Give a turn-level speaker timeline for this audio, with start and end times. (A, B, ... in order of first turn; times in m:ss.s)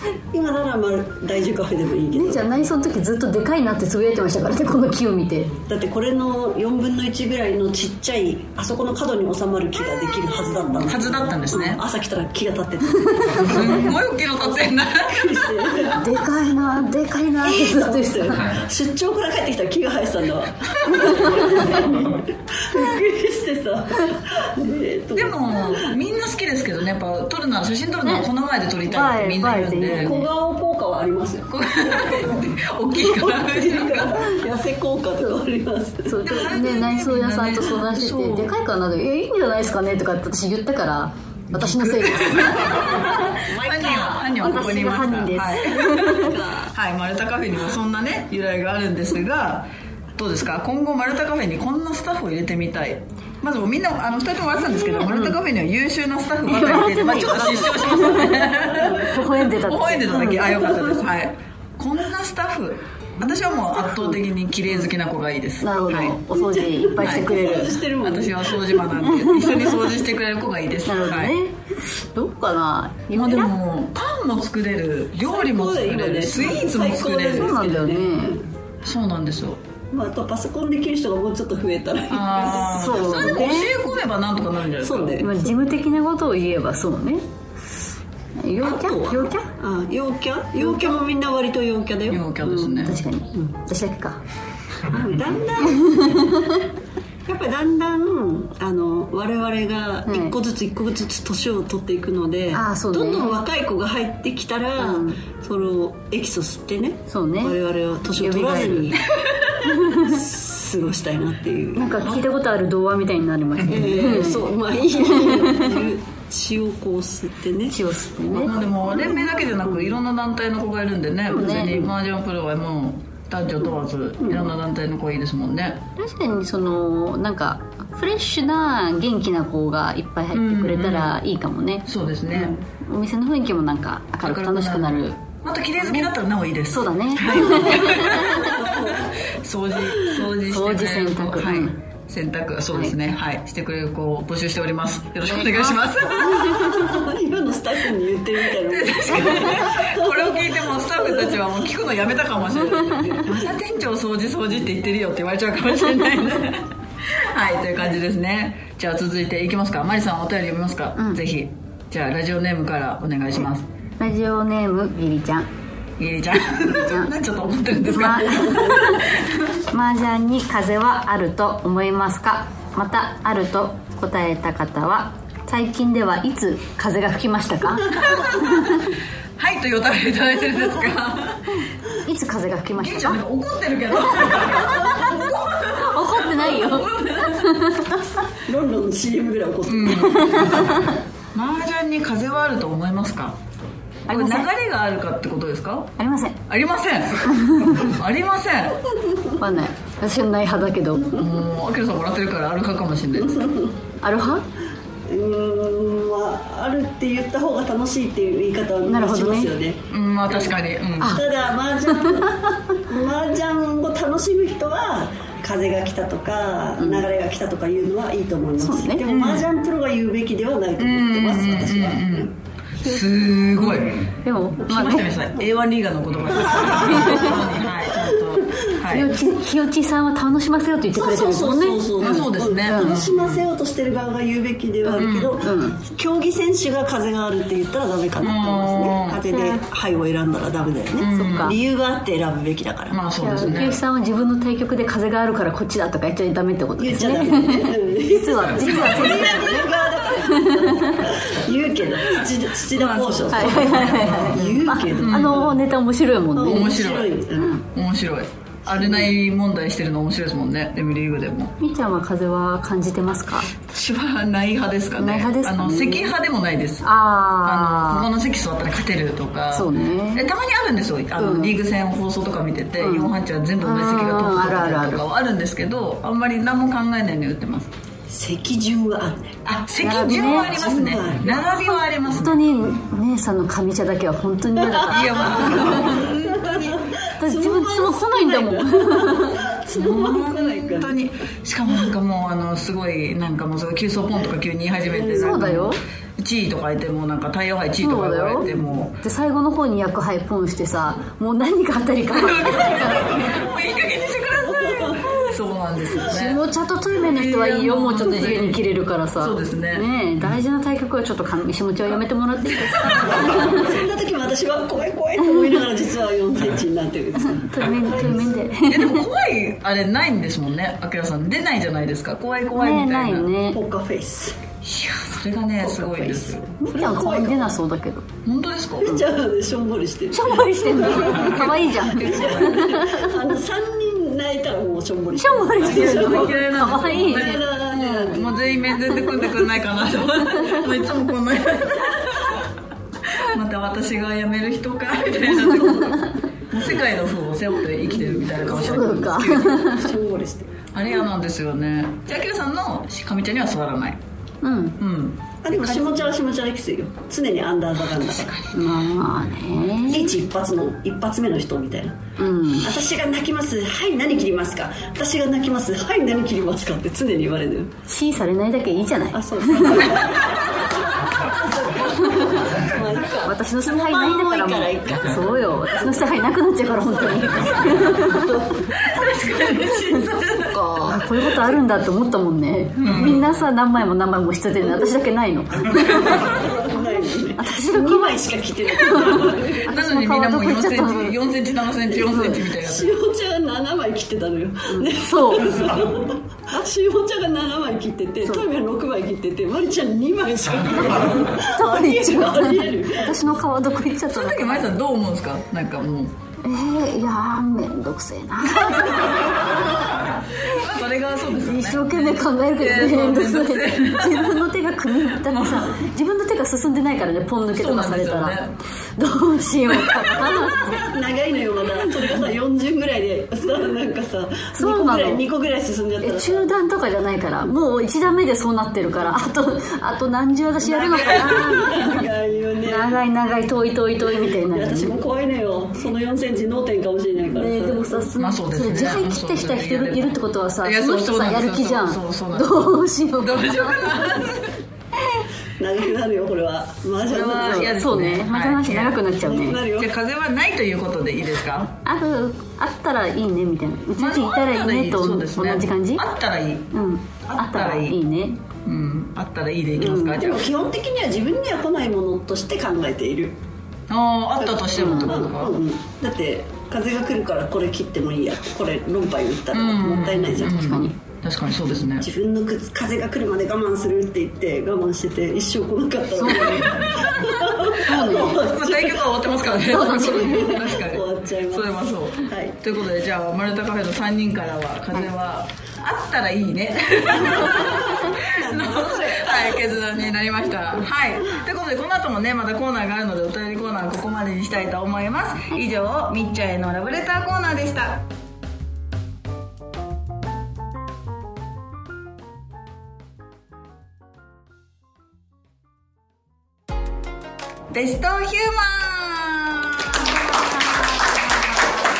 0:00.3-0:02.6 A
0:02.1-0:05.6 B
0:05.7-0:14.0 A
0:10.8-0:11.8 C
0:13.0-0:13.7 B
0:13.4-0:15.9 C
0:14.5-0:16.1 A
0:15.9-0:18.6 B
0:17.4-0:25.9 A
0:20.9-0:21.8 B
0:25.2-0:30.2 C
0:28.8-0:30.3 B
0:29.9-0:32.4 A
0:31.5-0:34.2 C
0:32.9-0:36.2 A
0:36.1-0:43.3 B
0:36.2-0:38.6 C
0:41.5-1:06.2 C
0:43.0-0:44.7 A
0:44.4-0:46.3 B
0:45.8-0:46.7 A
0:55.1-0:55.3 B
0:56.4-1:00.5 B
0:58.7-0:59.1 A
1:00.1-1:01.0 A
1:05.6-1:07.8 B
1:06.3-1:09.0 A
1:07.0-1:07.3 C
1:08.0-1:11.3 C
1:09.0-1:09.5 B
1:10.8-1:13.5 B
1:13.1-1:17.6 C
1:15.2-1:18.4 A
1:17.3-1:18.4 B
1:18.8-1:19.6 C
1:19.9-1:23.7 A
1:22.1-1:25.2 C
1:22.5-1:23.7 B
1:24.8-1:25.3 A
1:25.2-1:27.2 B
1:28.4-1:29.5 B
1:28.6-1:32.2 A
1:30.6-1:30.9 B
1:32.1-1:33.0 C
1:32.4-1:34.2 B
1:34.9-1:36.3 A
1:35.6-1:36.7 B
1:37.3-1:49.0 A
1:40.1-1:40.4 B
1:42.5-1:43.4 B
1:44.8-1:45.2 B
1:47.1-1:47.6 B
1:48.1-1:49.0 B
1:49.2-1:49.6 C
1:49.6-1:50.2 B
1:49.8-1:52.1 A
1:51.7-1:55.8 B
1:53.6-1:54.1 C
1:53.7-1:57.8 A
1:57.7-1:58.5 B
1:58.3-2:05.8 C
1:58.9-1:59.2 A
2:01.3-2:01.9 B
2:04.2-2:04.5 A
2:06.0-2:15.2 B
2:10.3-2:11.2 C
2:11.8-2:12.6 C
2:14.2-2:27.0 C
2:15.8-2:16.1 B
2:16.7-2:18.6 B
2:17.8-2:19.3 A
2:19.9-2:20.2 A
2:20.4-2:21.7 B
2:25.3-2:27.0 B
2:26.1-2:31.5 A
2:28.6-2:43.7 C
2:29.2-2:29.6 B
2:32.6-2:33.5 A
2:32.9-2:33.2 B
2:41.0-2:41.2 B
2:44.0-2:45.5 B
2:46.0-2:49.5 C
2:47.8-2:49.1 B
2:49.7-2:58.9 B
2:57.9-2:58.8 C
2:59.4-3:01.6 C
3:02.0-3:03.2 B
3:02.8-3:07.7 C
3:05.7-3:08.2 B
3:08.4-3:10.6 A
3:09.7-3:10.7 C
3:09.9-3:11.0 B
3:11.3-3:13.4 C
3:14.1-3:14.5 B
3:14.1-3:15.9 C
3:16.0-3:16.4 B
3:16.5-3:18.8 C
3:17.2-3:17.9 B
3:18.9-3:19.4 A
3:19.4-3:21.2 B
3:21.1-3:23.5 C
3:23.2-3:23.7 A
3:24.0-3:24.4 B
3:25.1-3:30.5 A
3:28.8-3:29.5 B
3:29.9-3:31.2 C
3:31.0-3:42.3 A
3:31.9-3:32.5 B
3:36.8-3:37.0 B
3:38.6-3:39.0 B
3:39.1-3:39.5 C
3:40.8-3:49.1 C
3:42.8-3:45.1 B
3:46.3-3:48.7 A
3:46.8-3:47.4 B
3:48.9-3:53.0 B
3:50.9-4:03.7 A
3:52.0-3:53.4 C
3:54.9-3:55.8 B
3:55.0-3:55.4 C
3:58.2-3:59.2 C
3:59.3-3:59.6 B
4:01.0-4:01.6 C
4:01.0-4:01.6 B
4:02.9-4:03.8 C
4:03.2-4:11.1 B
4:06.8-4:15.6 A
4:08.5-4:09.3 C
4:12.7-4:15.5 C
4:13.3-4:16.7 B
4:16.3-4:17.6 A
4:16.4-4:17.2 C
4:17.7-4:21.5 C
4:18.7-4:19.1 A
4:21.6-4:23.5 B
4:23.7-4:26.8 C
4:25.0-4:26.1 B
4:26.8-4:28.1 B
4:27.4-4:37.7 C
4:29.5-4:30.3 B
4:31.2-4:31.6 B
4:32.8-4:35.1 B
4:38.1-4:39.4 A
4:39.4-4:42.5 C
4:39.8-4:40.6 B
4:40.2-4:41.8 A
4:42.0-4:46.1 B
4:44.6-4:51.0 A
4:44.9-4:46.9 C
4:47.2-4:49.4 B
4:49.7-4:59.0 C
4:54.9-4:55.6 A
4:55.1-4:55.8 B
4:57.8-4:58.5 B
4:58.4-4:58.9 A
4:59.0-5:03.3 B
5:02.1-5:06.4 C
5:04.4-5:05.3 A
5:06.0-5:13.7 B
5:07.0-5:08.6 C
5:09.2-5:09.8 C
5:13.0-5:17.8 A
5:15.2-5:15.6 B
5:17.2-5:19.1 B
5:18.7-5:23.3 C
5:22.5-5:23.6 B
5:23.5-5:24.4 A
5:24.6-5:26.4 C
5:25.6-5:27.5 A
5:26.6-5:28.1 B
5:28.2-5:29.0 C
5:28.8-5:31.4 A
5:30.1-5:33.1 B
5:31.0-5:32.8 C
5:32.0-5:38.4 A
5:35.2-5:37.5 B
5:35.6-5:42.5 C
5:40.3-5:40.6 B
5:43.0-5:49.7 C
5:45.4-5:45.9 A
5:45.8-5:46.2 B
5:47.9-5:50.6 A
5:48.4-5:49.9 B
5:50.7-5:54.0 C
5:54.4-5:54.8 B
5:54.8-5:55.2 C
5:55.4-5:58.3 A
5:55.5-5:56.1 B
5:57.9-5:58.7 C
5:58.5-6:00.2 B
5:59.8-6:02.0 A
6:02.2-6:02.7 B
6:02.6-6:07.7 A
6:07.9-6:10.0 B
6:09.1-6:15.9 A
6:12.0-6:12.4 B
6:13.2-6:18.5 B
6:16.7-6:18.7 A
6:18.7-6:20.9 C
6:20.6-6:21.0 A
6:20.8-6:26.8 B
6:22.8-6:23.2 C
6:25.7-6:29.7 A
6:27.3-6:31.2 B
6:29.7-6:32.9 C
6:32.0-6:32.4 B
6:32.5-6:43.2 A
6:34.7-6:35.6 B
6:40.9-6:44.8 B
6:44.1-6:46.2 C
6:46.4-6:49.7 B
6:48.6-6:49.1 C
6:50.4-6:54.5 C
6:51.4-6:58.4 B
6:55.2-6:55.7 C
6:57.5-6:58.6 C
6:59.0-7:00.8 B
6:59.7-7:00.2 C
7:00.2-7:06.5 A
7:04.6-7:05.2 B
7:06.0-7:12.1 B
7:10.6-7:12.9 A
7:12.6-7:15.0 B
7:14.3-7:18.1 A
7:17.2-7:24.3 B
7:18.2-7:24.6 C
7:25.6-7:27.7 A
7:27.1-7:29.0 C
7:27.3-7:29.6 B
7:29.2-7:29.9 A
7:29.7-7:31.8 C
7:31.8-7:36.1 B
7:34.0-7:36.7 C
7:36.7-7:38.4 B
7:37.3-7:38.0 C
7:38.6-7:40.5 C
7:39.8-7:40.2 B
7:40.1-7:43.4 A
7:43.9-7:45.6 C
7:44.4-7:50.8 A
7:44.7-7:45.1 B
7:49.5-7:52.1 C
7:50.4-7:51.0 B
7:52.0-8:02.6 A
7:56.2-7:56.9 B
7:56.8-8:18.1 C
7:57.8-7:58.4 B
7:59.6-8:00.7 B
8:07.2-8:09.6 A
8:27.7-8:31.7 C